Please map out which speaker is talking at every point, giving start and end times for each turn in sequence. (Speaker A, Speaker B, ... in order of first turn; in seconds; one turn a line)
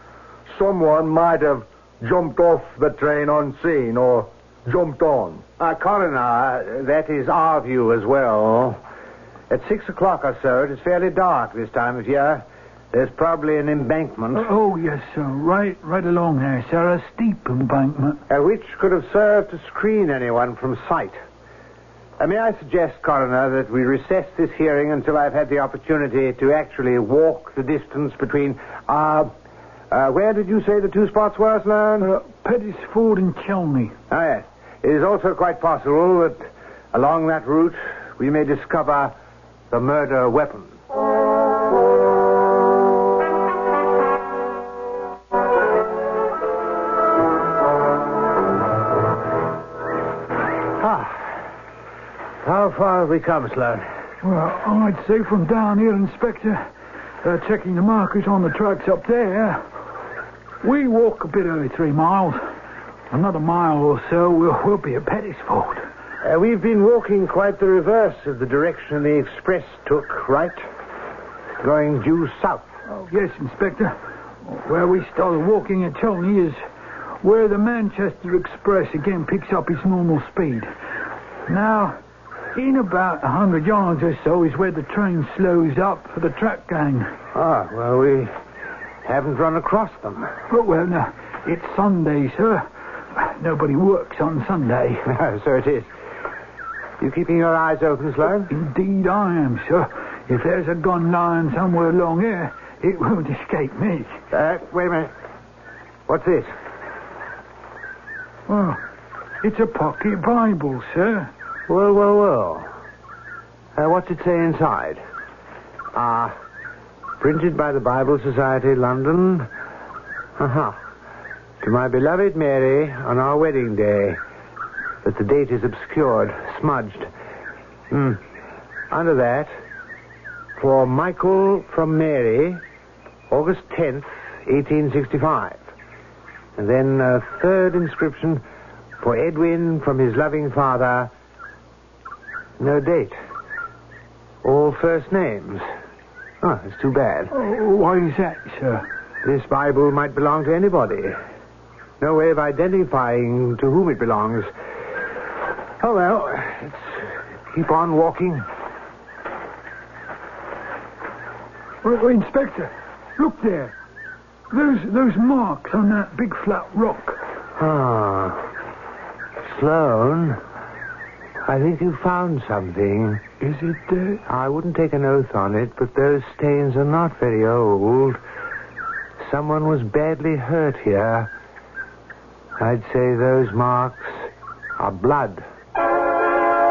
Speaker A: 0.5-5.4
Speaker B: 5.6-8.8
Speaker B: 9.5-14.5
Speaker C: 14.3-18.2
Speaker B: 18.3-21.2
Speaker B: 22.2-29.3
Speaker B: 29.9-32.1
Speaker C: 32.0-34.0
Speaker B: 34.1-39.1
Speaker B: 39.7-40.7
Speaker B: 50.8-51.3
Speaker B: 52.4-53.8
Speaker C: 54.2-56.6
Speaker C: 57.2-59.6
Speaker C: 60.6-62.4
Speaker C: 63.1-65.8
Speaker B: 66.2-70.6
Speaker B: 71.6-72.7
Speaker C: 72.9-76.6
Speaker C: 77.2-80.7
Speaker C: 81.5-82.0
Speaker C: 82.5-87.1
Speaker B: 87.3-88.3
Speaker B: 89.0-90.3
Speaker C: 90.5-95.1
Speaker B: 95.1-95.9
Speaker B: 97.0-98.5
Speaker C: 98.5-104.2
Speaker B: 104.3-105.1
Speaker B: 106.1-106.5
Speaker C: 108.5-108.8
Speaker C: 109.4-111.3
Speaker B: 111.7-112.7
Speaker B: 113.8-115.0
Speaker B: 115.9-116.3
Speaker B: 117.2-119.5
Speaker B: 120.4-120.8
Speaker B: 121.6-124.2
Speaker B: 125.0-127.1
Speaker B: 127.9-128.2
Speaker B: 128.9-129.5
Speaker B: 130.6-132.6
Speaker B: 133.3-135.6
Speaker B: 136.6-138.4
Speaker B: 139.0-141.1
Speaker B: 142.6-143.2
Speaker B: 144.4-145.6
Speaker B: 146.4-147.3
Speaker C: 147.3-148.8
Speaker B: 149.2-151.2
Speaker B: 152.0-154.5
Speaker B: 155.8-158.4
Speaker C: 161.8-163.7
Speaker C: 164.5-167.2
Speaker B: 167.6-168.5
Speaker B: 169.4-170.4
Speaker B: 171.4-173.2
Speaker C: 173.4-174.2
Speaker B: 174.2-178.2
Speaker B: 179.2-181.3
Speaker B: 182.6-184.1
Speaker B: 184.8-185.4